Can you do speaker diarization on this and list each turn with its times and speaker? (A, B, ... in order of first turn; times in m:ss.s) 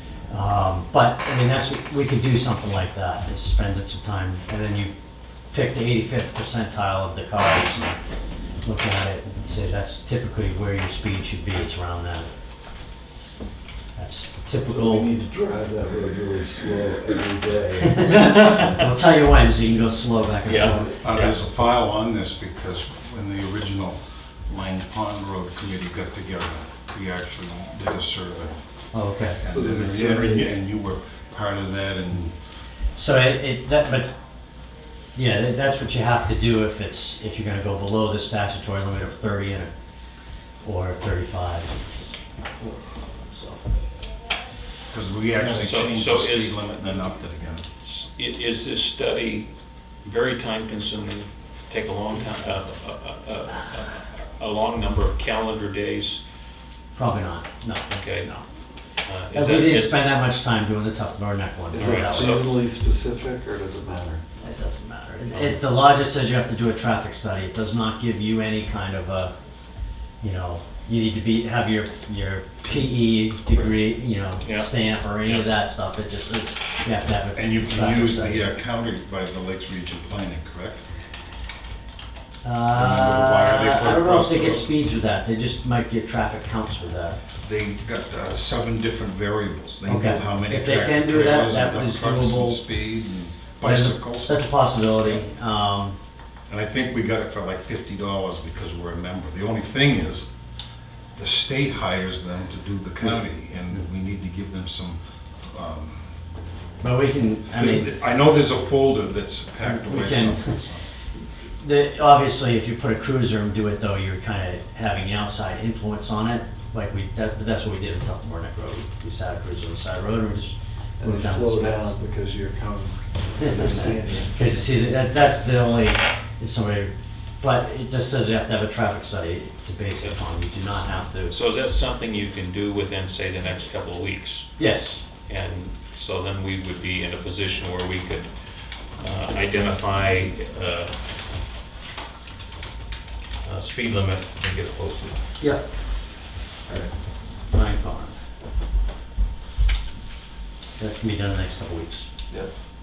0:00.3-0:04.9 A
0:05.5-0:08.0 A
0:08.6-0:12.3 A
0:14.0-0:15.1 A
0:14.6-0:18.9 B
0:17.8-0:20.9 A
0:18.2-0:18.7 C
0:20.4-0:21.4 C
0:21.0-0:28.6 D
0:28.9-0:29.4 A
0:29.4-0:32.4 D
0:29.4-0:30.6 B
0:33.0-0:34.1 A
0:35.2-0:39.7 A
0:40.6-0:41.8 A
0:42.6-0:43.6 A
0:44.9-0:47.6 D
0:45.5-0:46.6 C
0:47.8-0:49.5 C
0:50.0-0:56.2 C
0:56.9-0:58.4 A
0:57.9-0:58.3 C
0:59.0-1:00.2 C
0:59.3-1:02.4 A
1:01.7-1:04.2 B
1:01.8-1:02.5 C
1:04.4-1:09.3 A
1:05.3-1:05.6 C
1:10.2-1:18.5 A
1:14.4-1:15.5 C
1:17.4-1:20.8 D
1:22.4-1:27.2 A
1:22.8-1:24.7 D
1:27.4-1:34.4 D
1:29.8-1:32.7 A
1:33.6-1:36.0 A
1:36.5-1:40.3 D
1:41.2-1:46.2 D
1:46.8-1:47.9 A
1:47.5-1:50.8 D
1:49.6-1:50.6 A
1:51.6-2:01.9 A
2:01.0-2:04.4 B
2:03.4-2:11.4 A
2:10.7-2:14.6 C
2:14.6-2:15.0 A
2:15.3-2:18.3 C
2:19.0-2:20.9 C
2:23.4-2:25.2 C
2:27.5-2:28.2 A
2:30.8-2:32.1 A